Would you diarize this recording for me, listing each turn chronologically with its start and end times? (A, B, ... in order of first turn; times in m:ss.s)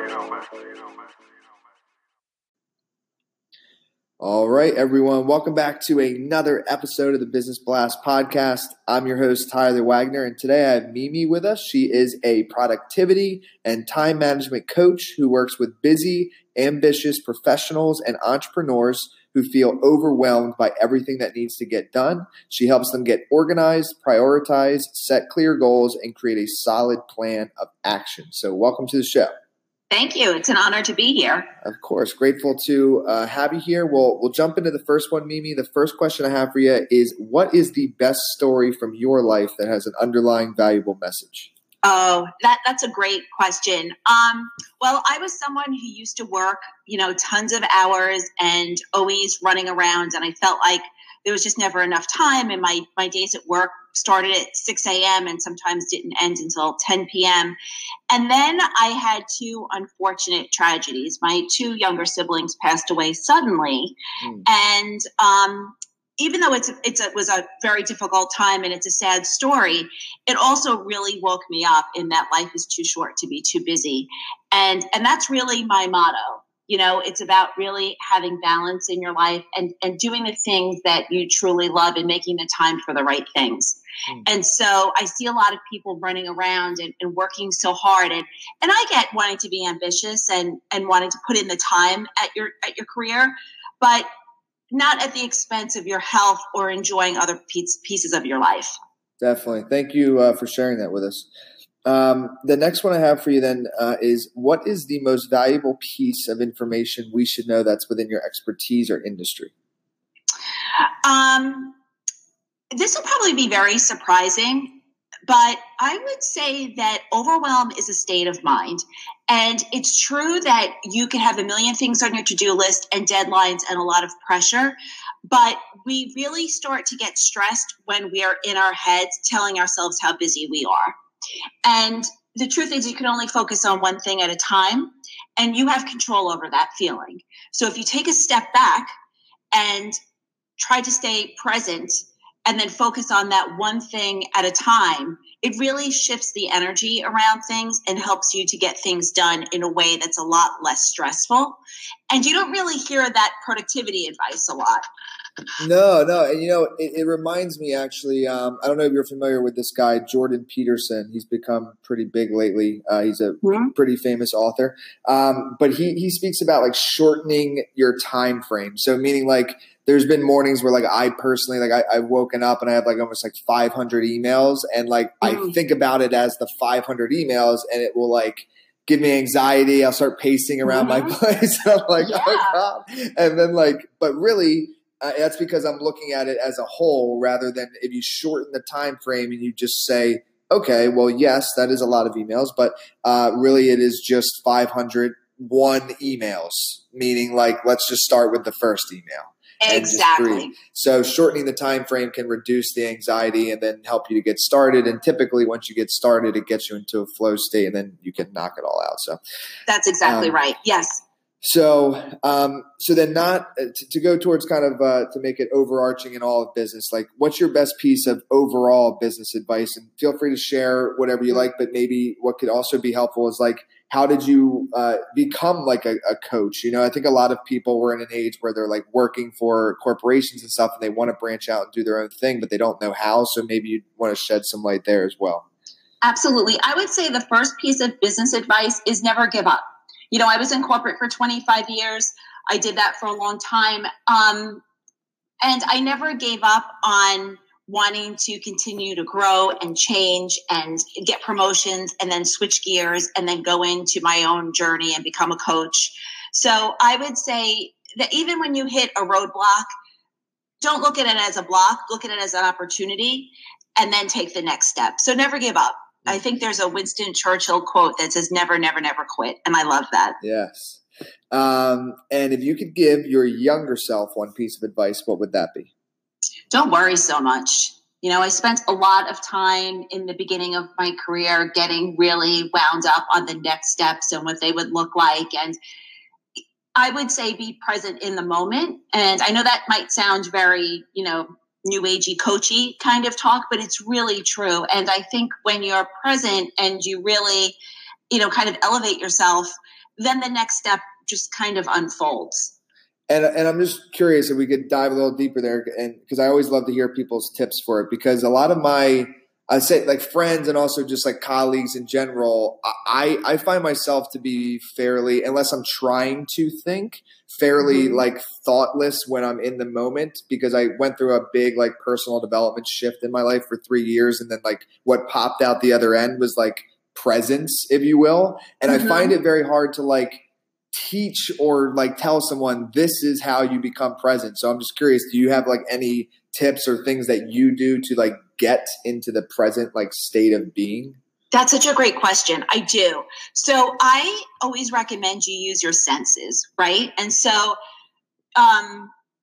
0:04.2-0:29.3 A
0:29.9-0:31.5 B
0:31.6-0:41.5 A
0:41.8-0:57.6 B
0:58.1-1:34.1 B
1:04.2-1:04.5 A
1:34.7-1:38.7 B
1:39.2-1:41.3 A
1:41.9-1:49.5 A
1:51.0-1:51.8 B
1:52.8-1:54.7 B
1:55.3-2:04.8 B
2:05.3-2:11.0 B
2:11.6-2:18.9 B
2:19.5-2:20.0 B
2:20.6-2:31.6 B
2:32.1-2:34.8 B
2:35.6-3:29.2 A
2:43.4-2:43.7 B
2:55.2-2:55.6 B
3:00.6-3:01.2 B
3:02.0-3:02.6 B
3:19.6-3:20.5 B
3:29.7-3:31.0 B
3:30.0-3:30.4 A
3:31.4-3:55.4 A
3:56.0-4:04.6 B
4:05.4-4:19.7 B
4:20.6-4:30.2 B
4:30.2-4:35.7 A
4:36.5-4:45.6 B
4:46.8-4:57.6 B
4:58.1-5:02.5 B
5:03.1-5:41.0 A
5:17.6-5:18.0 B
5:28.7-5:29.1 B
5:41.3-5:47.6 B
5:48.4-5:48.9 B